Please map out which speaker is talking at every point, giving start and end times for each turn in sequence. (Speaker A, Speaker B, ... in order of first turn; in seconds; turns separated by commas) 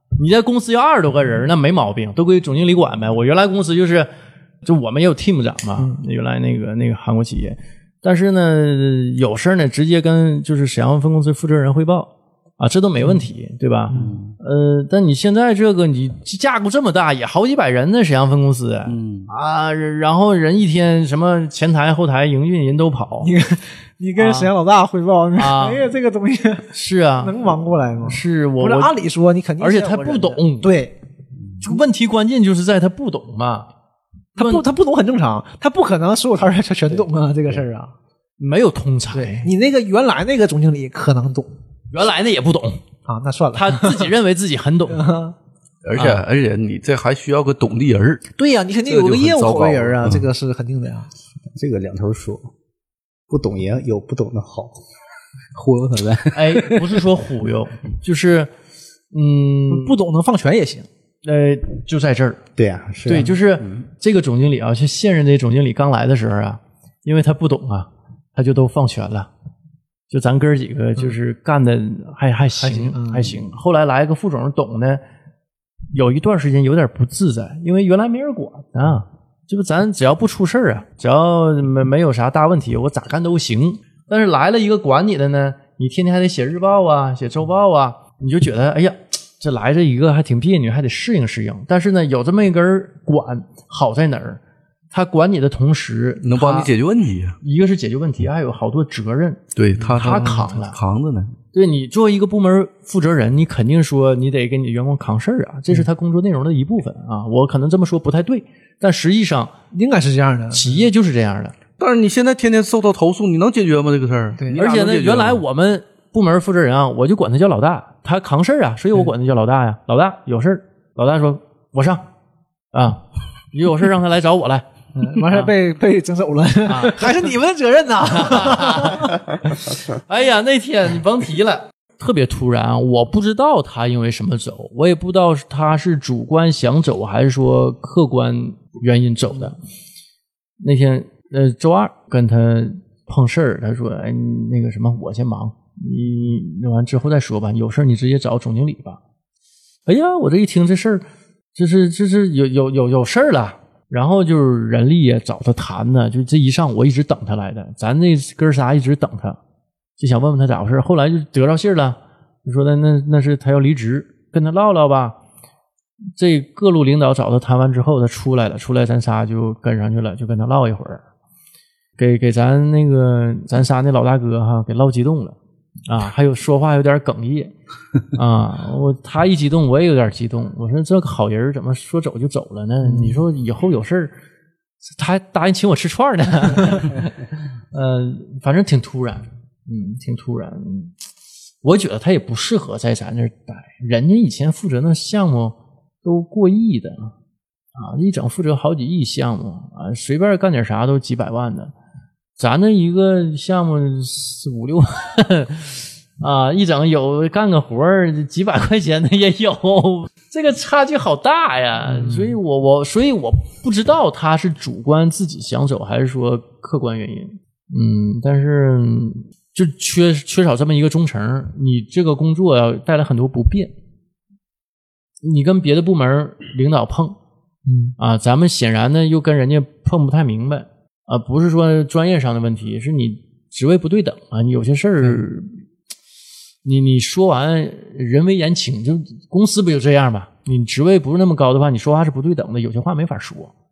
Speaker A: 0.2-4.1, Speaker A: 4.6-23.3, Speaker B: 13.9-14.3, Speaker B: 18.9-19.3, Speaker C: 23.2-26.7, Speaker A: 24.2-24.5, Speaker A: 25.4-25.9, Speaker A: 26.7-27.4, Speaker C: 27.2-30.9, Speaker A: 28.1-28.9, Speaker A: 29.6-30.7, Speaker A: 31.6-33.7, Speaker C: 34.4-37.9, Speaker A: 34.4-34.6, Speaker A: 38.4-39.5, Speaker C: 39.1-41.5, Speaker A: 41.9-42.8, Speaker C: 43.1-44.1, Speaker A: 43.5-45.1, Speaker C: 44.9-45.4, Speaker D: 45.8-48.2, Speaker A: 46.0-46.2, Speaker C: 48.4-51.1, Speaker D: 48.9-50.2, Speaker E: 51.5-52.5, Speaker E: 53.3-54.8, Speaker B: 55.5-56.9, Speaker A: 56.3-58.5, Speaker A: 59.1-60.0, Speaker C: 59.7-60.9, Speaker A: 61.2-62.4, Speaker E: 62.6-63.8, Speaker A: 63.1-69.3, Speaker A: 70.1-75.0, Speaker C: 72.6-73.4, Speaker A: 75.9-94.4, Speaker A: 94.9-96.7, Speaker D: 96.2-97.4, Speaker A: 97.4-100.8, Speaker D: 99.5-101.3, Speaker A: 101.5-109.5, Speaker C: 109.7-110.8, Speaker A: 110.5-111.5, Speaker D: 111.8-115.4, Speaker A: 114.5-122.0, Speaker A: 122.7-124.7, Speaker C: 125.0-129.1, Speaker A: 126.7-127.1, Speaker A: 128.1-139.6, Speaker A: 140.6-149.0, Speaker A: 149.9-159.4, Speaker A: 160.0-165.2, Speaker A: 166.2-171.0, Speaker A: 172.0-175.4, Speaker A: 175.9-177.5, Speaker A: 178.1-184.1, Speaker A: 184.9-187.1, Speaker A: 187.7-190.9, Speaker A: 191.6-197.1, Speaker A: 197.8-201.7, Speaker A: 202.4-223.7, Speaker A: 225.2-227.2, Speaker C: 227.7-228.0, Speaker A: 228.0-235.6, Speaker A: 236.7-243.5